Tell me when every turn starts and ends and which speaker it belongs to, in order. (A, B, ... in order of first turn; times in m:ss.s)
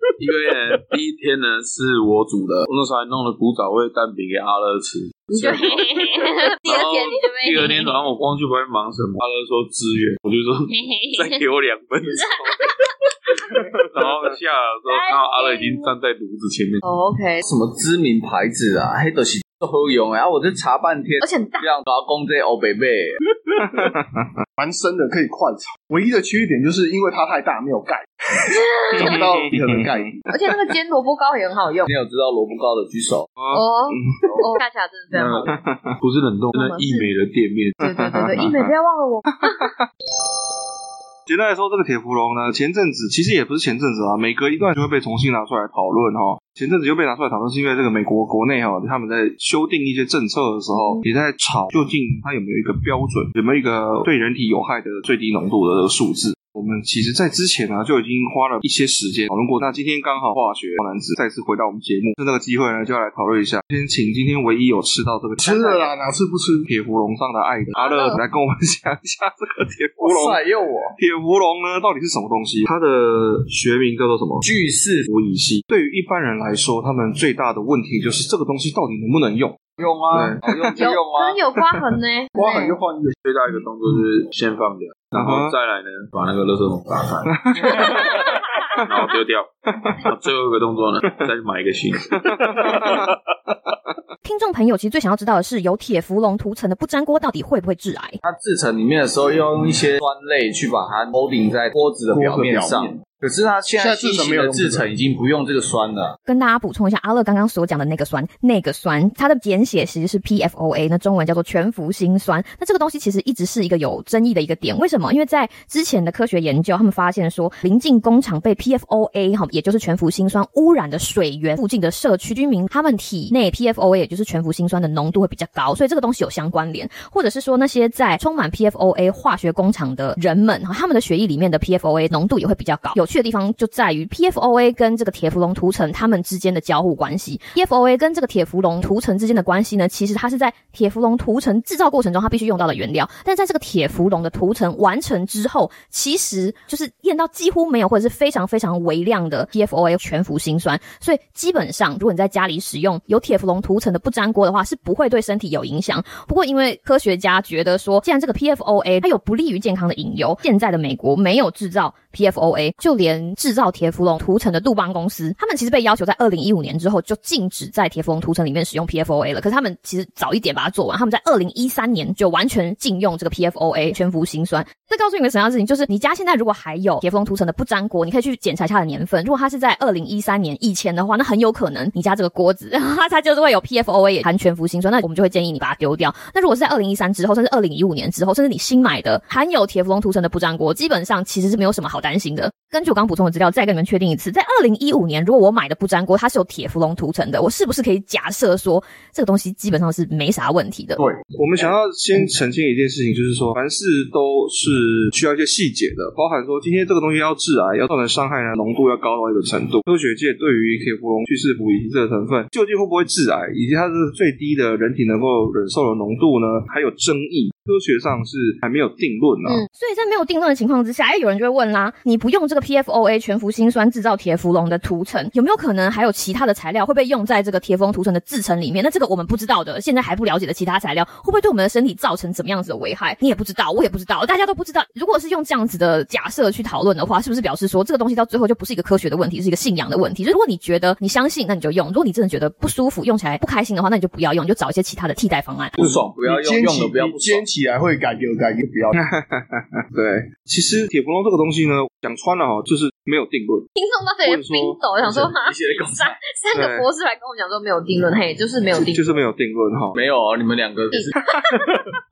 0:00.2-0:12.4 A
0:05.3-0:08.0 B
0:10.7-0:11.4 B
0:12.2-0:12.5 B
0:13.8-0:16.8 A
0:14.9-0:15.9 B
0:16.8-0:17.4 B
0:17.4-0:23.2 C
0:21.2-0:21.7 B
0:23.6-0:24.2 D
0:24.6-0:28.4 E
0:28.5-0:29.2 B
0:28.9-0:30.5 D
0:29.0-0:30.1 E
0:30.2-0:31.9 B
0:31.9-0:33.4 C
0:33.4-0:34.0 D
0:33.4-0:35.6 B
0:35.1-0:37.9 A
0:35.5-0:35.9 D
0:36.5-0:37.1 B
0:37.8-0:38.7 D
0:37.8-0:39.7 B
0:39.4-0:39.8 D
0:41.3-1:05.9 D
0:50.7-0:51.0 B
1:05.4-1:06.7 E
1:06.6-1:10.4 D
1:07.8-1:08.2 B
1:10.0-1:11.0 C
1:11.0-1:14.4 D
1:14.4-1:15.1 C
1:15.1-1:19.6 D
1:19.8-1:21.4 C
1:20.1-1:20.9 D
1:20.8-1:22.8 B
1:22.3-1:23.2 E
1:23.2-1:27.3 A
1:25.2-1:25.5 D
1:27.3-1:28.0 D
1:27.7-1:28.1 B
1:28.8-1:33.3 A
1:32.2-1:33.1 D
1:34.2-1:38.2 F
1:38.2-1:46.1 C
1:42.1-1:43.0 E
1:43.8-1:44.9 E
1:46.2-3:21.0 F
3:21.3-3:39.6 D
3:39.7-4:05.8 F
4:05.8-4:07.4 C
4:05.8-4:09.0 E
4:09.0-4:13.7 D
4:13.8-4:19.1 B
4:14.2-4:14.9 D
4:15.0-4:16.2 C
4:16.5-4:16.9 D
4:18.7-4:20.0 D
4:19.9-4:21.2 C
4:20.9-4:21.6 B